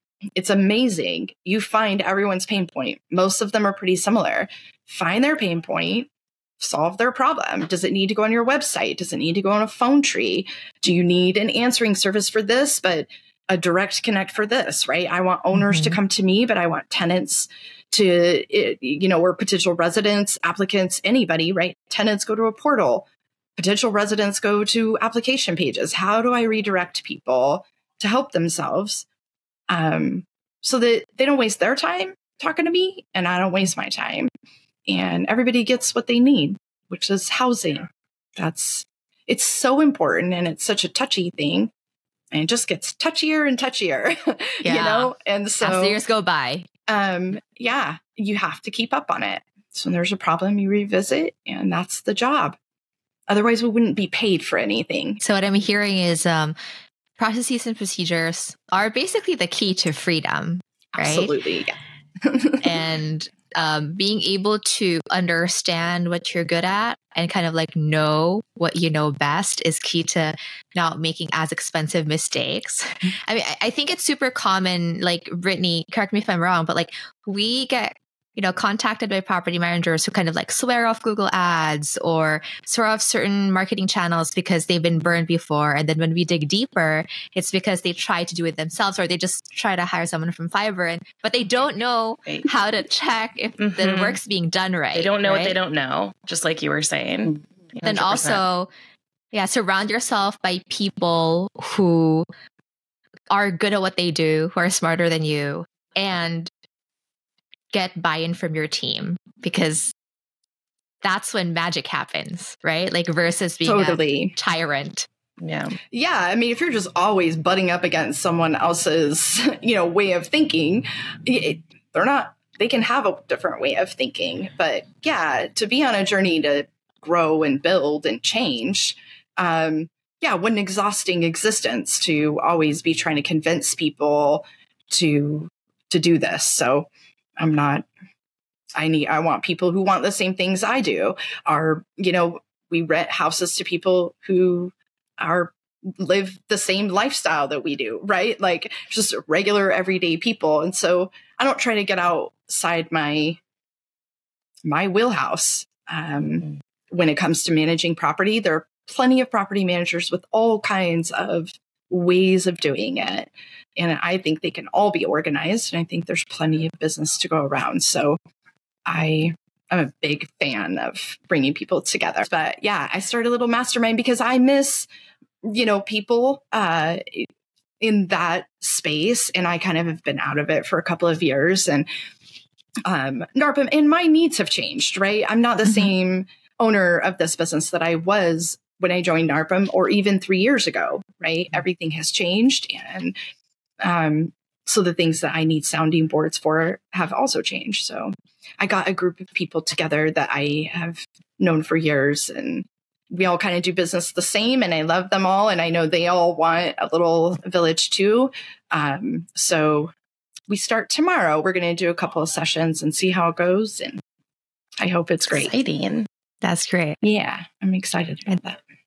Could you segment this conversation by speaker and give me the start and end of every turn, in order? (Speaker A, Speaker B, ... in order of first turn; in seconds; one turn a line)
Speaker A: 0.3-29.1
Speaker B: 15.5-16.0
Speaker A: 29.7-34.3
Speaker A: 34.9-41.7
Speaker A: 42.3-46.0
Speaker B: 44.6-46.7
Speaker A: 46.9-52.6
Speaker A: 53.3-55.2
Speaker B: 55.2-56.5
Speaker B: 57.2-61.3
Speaker A: 61.0-62.7
Speaker B: 62.6-95.6
Speaker C: 93.6-94.2
Speaker C: 94.9-98.4
Speaker B: 97.8-98.7
Speaker B: 99.3-102.3
Speaker B: 103.3-106.5
Speaker B: 107.7-109.9
Speaker B: 111.0-115.0
Speaker A: 113.6-114.4
Speaker C: 115.4-115.8
Speaker A: 115.9-137.9
Speaker A: 138.8-153.4
Speaker A: 154.6-168.2
Speaker A: 168.9-174.9
Speaker A: 175.4-177.3
Speaker A: 177.8-181.9
Speaker A: 182.8-193.1
Speaker A: 193.8-209.9
Speaker A: 210.5-214.0
Speaker A: 214.8-215.5
Speaker C: 215.3-216.1
Speaker B: 216.4-217.0
Speaker A: 217.0-218.6